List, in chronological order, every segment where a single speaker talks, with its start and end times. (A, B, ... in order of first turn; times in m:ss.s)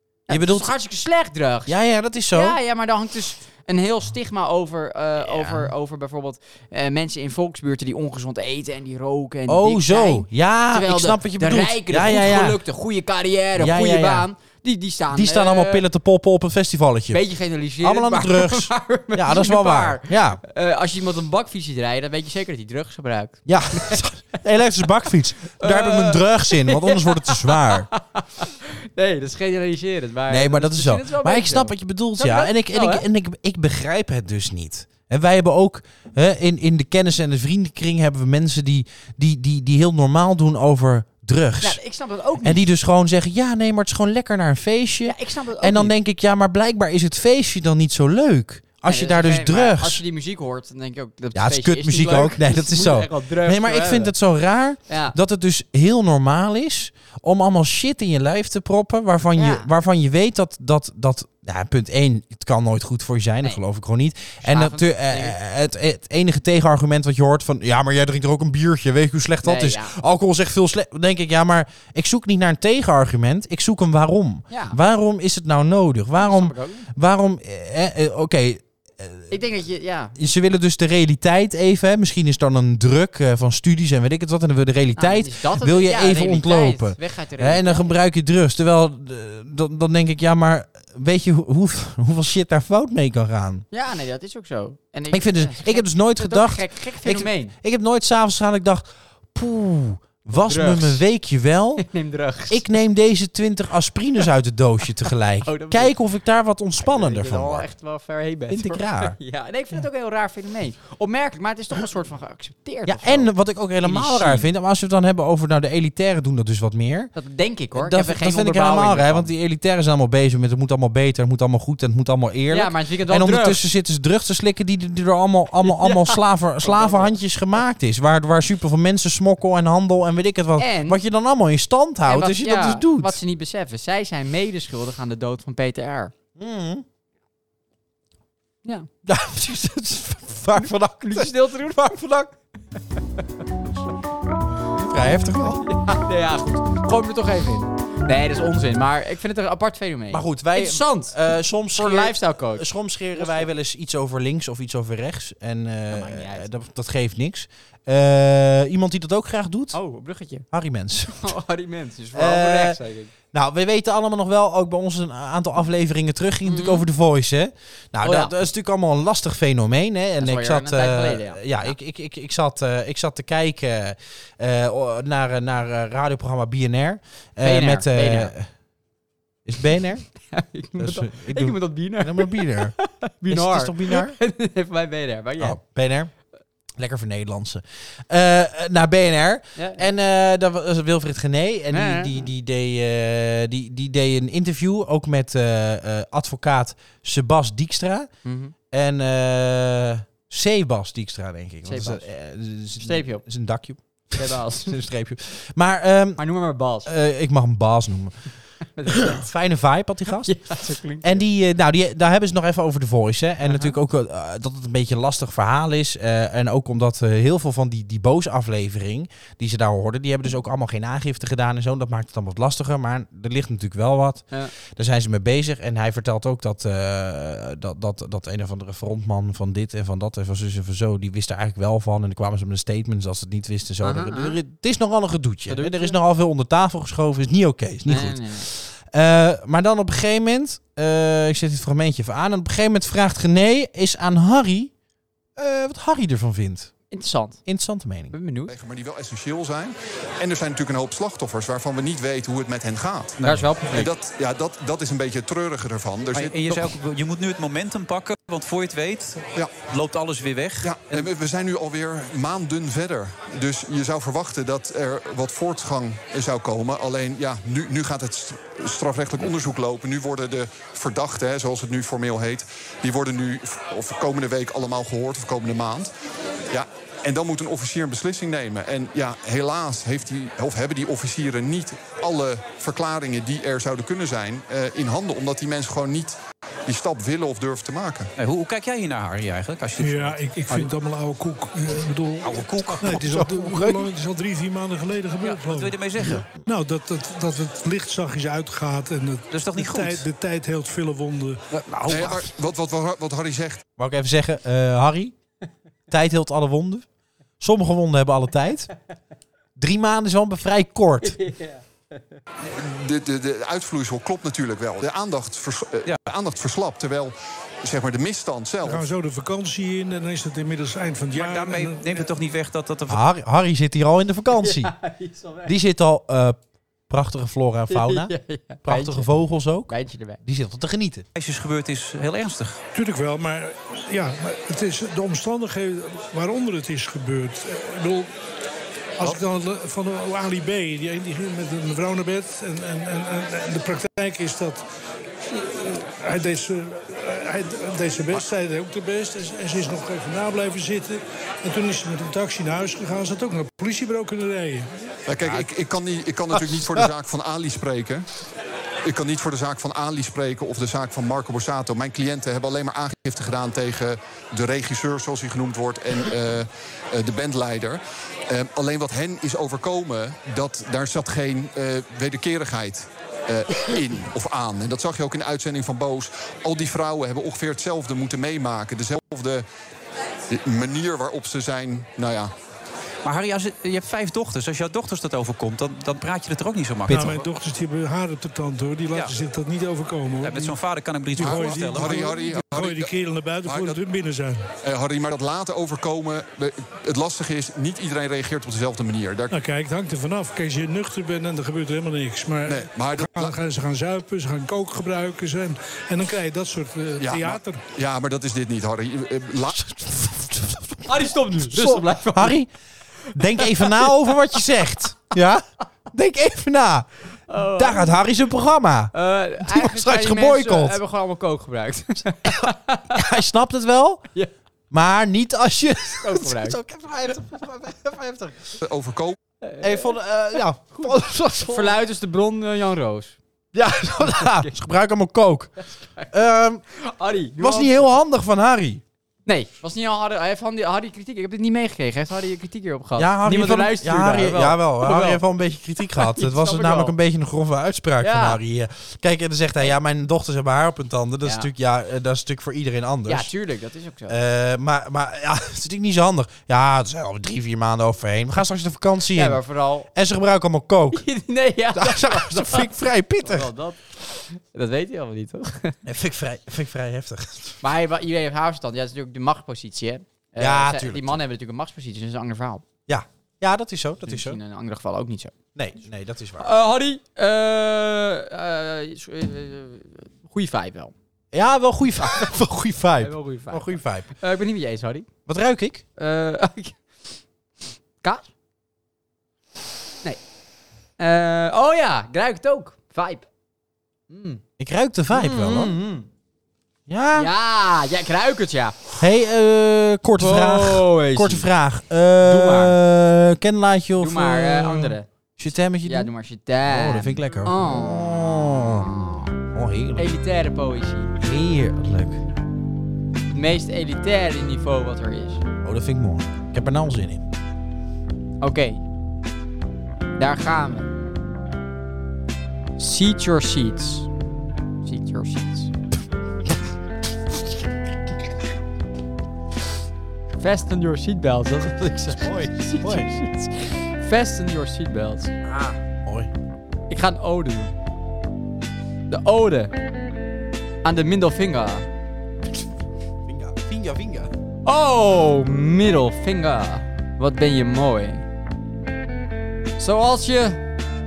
0:00.3-0:01.8 A
0:00.3-0:00.7 B
0:01.7-0:02.6 B
0:02.3-0:15.8 A
0:05.2-0:05.7 B
0:09.5-0:12.6 B
0:13.5-0:14.3 B
0:15.1-0:17.2 B
0:17.1-0:24.0 A
0:17.8-0:20.4 B
0:23.4-0:27.9 B
0:25.4-0:33.0 A
0:30.3-0:41.8 B
0:41.6-0:42.6 A
0:42.4-0:50.0 B
0:45.0-0:45.9 A
0:48.8-0:54.1 A
0:51.3-1:19.3 B
0:54.9-0:55.2 A
0:59.4-0:59.7 A
1:04.4-1:05.4 A
1:09.4-1:09.9 A
1:14.5-1:14.8 A
1:16.2-1:16.9 A
1:19.3-1:20.1 A
1:20.1-1:33.6 B
1:25.0-1:27.9 A
1:33.7-1:37.5 A
1:35.1-1:41.8 B
1:40.3-1:41.0 A
1:41.8-1:42.6 A
1:42.5-1:47.7 B
1:45.4-1:46.0 A
1:46.8-1:54.5 A
1:48.5-1:49.2 B
1:52.8-1:57.1 B
1:57.1-1:59.3 A
1:57.7-2:13.2 B
2:02.5-2:03.6 A
2:05.6-2:07.2 A
2:10.6-2:11.0 A
2:12.0-2:16.1 A
2:16.4-2:16.8 B
2:19.0-2:22.3 B
2:20.6-2:22.1 A
2:24.8-2:25.6 B
2:25.6-2:31.2 A
2:30.1-2:39.8 B
2:31.7-2:33.5 A
2:35.9-2:36.5 A
2:39.7-2:40.4 A
2:40.5-2:41.4 B
2:41.1-2:43.1 A
2:42.1-2:42.8 B
2:43.3-2:58.5 B
2:46.4-2:46.8 A
2:48.0-2:48.3 A
2:50.2-2:51.7 A
2:57.4-2:58.3 A
2:59.4-3:00.0 B
3:00.2-3:05.6 A
3:00.8-3:04.2 B
3:05.4-3:06.1 B
3:06.8-3:18.1 B
3:09.6-3:09.9 A
3:11.7-3:12.3 A
3:18.2-3:18.5 A
3:18.7-3:26.2 B
3:21.6-3:22.0 A
3:22.8-3:23.2 A
3:24.1-3:24.8 A
3:26.2-3:26.9 A
3:26.8-3:28.2 B
3:28.6-3:29.2 A
3:28.9-3:30.3 B
3:30.1-3:31.3 A
3:31.0-4:04.7 B
3:33.4-3:33.8 A
3:53.8-3:54.4 A
3:55.5-3:56.0 A
3:57.8-3:58.5 A
4:05.4-4:06.7 B
4:06.9-4:07.4 A
4:07.4-4:08.1 B
4:08.1-4:08.5 A
4:08.5-4:13.2 C
4:13.2-4:13.5 D
4:13.2-4:13.9 A
4:13.7-4:16.6 C
4:16.1-4:21.1 D
4:20.6-4:35.9 C
4:36.5-4:46.2 C
4:46.7-4:48.1 C
4:48.2-4:50.7 D
4:49.8-5:01.4 E
4:52.2-4:53.0 D
4:52.8-4:53.9 B
4:55.2-4:56.3 D
4:59.3-5:00.0 D
5:01.5-5:02.3 D
5:01.9-5:03.6 C
5:03.8-5:05.1 B
5:05.9-5:06.8 B
5:07.4-5:08.7 B
5:09.6-5:11.2 B
5:11.0-5:12.2 A
5:12.4-5:18.9 C
5:18.6-5:22.1 E
5:21.1-5:23.0 D
5:22.9-5:24.7 B
5:24.4-5:25.5 A
5:25.4-5:31.0 B
5:27.7-5:29.1 A
5:29.6-5:30.2 A
5:31.2-5:32.6 D
5:32.7-5:38.1 E
5:39.0-5:44.6 E
5:45.3-5:54.7 E
5:55.0-5:58.1 C
5:55.2-5:55.5 B
5:56.3-5:56.9 B
5:58.8-6:19.4 C
6:20.3-6:22.3 C
6:23.0-6:27.3 D
6:26.9-6:27.2 B
6:26.9-6:30.6 E
6:30.2-6:32.2 D
6:31.1-6:34.4 E
6:31.2-6:32.9 C
6:33.4-6:33.8 C
6:34.6-6:39.3 C
6:39.3-6:47.6 E
6:42.4-6:43.3 C
6:47.0-6:49.6 C
6:49.5-6:52.5 B
6:50.8-6:52.4 A
6:53.0-6:54.0 A
6:53.1-7:00.8 B
6:57.3-6:58.0 A
6:58.9-7:03.1 A
7:02.2-7:04.1 B
7:04.7-7:08.6 B
7:06.0-7:06.6 A
7:08.6-7:09.2 C
7:09.4-7:10.0 A
7:09.6-7:11.8 B
7:10.7-7:13.2 A
7:13.5-7:15.5 B
7:14.0-7:14.6 A
7:16.1-7:16.6 B
7:16.7-7:17.9 A
7:17.4-7:18.8 B
7:19.2-7:25.2 A
7:23.0-7:33.3 B
7:25.9-7:27.0 A
7:28.0-7:28.4 A
7:31.2-7:31.5 A
7:33.1-7:34.2 A
7:34.1-7:41.0 B
7:39.1-7:39.9 A
7:40.9-7:45.8 A
7:41.7-7:43.5 B
7:45.8-7:47.6 B
7:47.6-7:52.6 A
7:50.4-7:51.2 B
7:52.9-7:54.4 B
7:54.0-7:55.3 A
7:55.5-7:56.5 B
7:56.4-8:00.9 A
8:01.3-8:04.1 B
8:02.0-8:02.3 A
8:03.0-8:05.1 A
8:05.2-8:05.8 B
8:06.0-8:06.8 A
8:08.0-8:08.3 A
8:11.0-8:13.2 A
8:14.1-8:14.4 A
8:14.6-8:15.8 B
8:15.1-8:16.1 A
8:16.9-8:17.3 B
8:17.1-8:18.8 A
8:19.0-8:26.1 B
8:20.2-8:21.5 A
8:22.2-8:22.8 A
8:24.0-8:25.1 A
8:25.8-8:29.3 A
8:26.6-8:30.1 B
8:30.0-8:31.1 A
8:31.2-8:32.2 B
8:33.3-8:35.4 A
8:35.6-8:37.2 B
8:38.4-8:38.8 A
8:40.2-8:41.0 A
8:42.8-8:44.1 A
8:44.8-8:45.7 A
8:50.4-8:55.3 A
8:52.1-8:53.1 B
8:55.4-8:56.3 B
8:56.9-8:57.7 A
8:59.1-8:59.7 A
9:00.8-9:01.8 A
9:03.2-9:04.3 B
9:04.6-9:08.2 A
9:09.8-9:10.6 A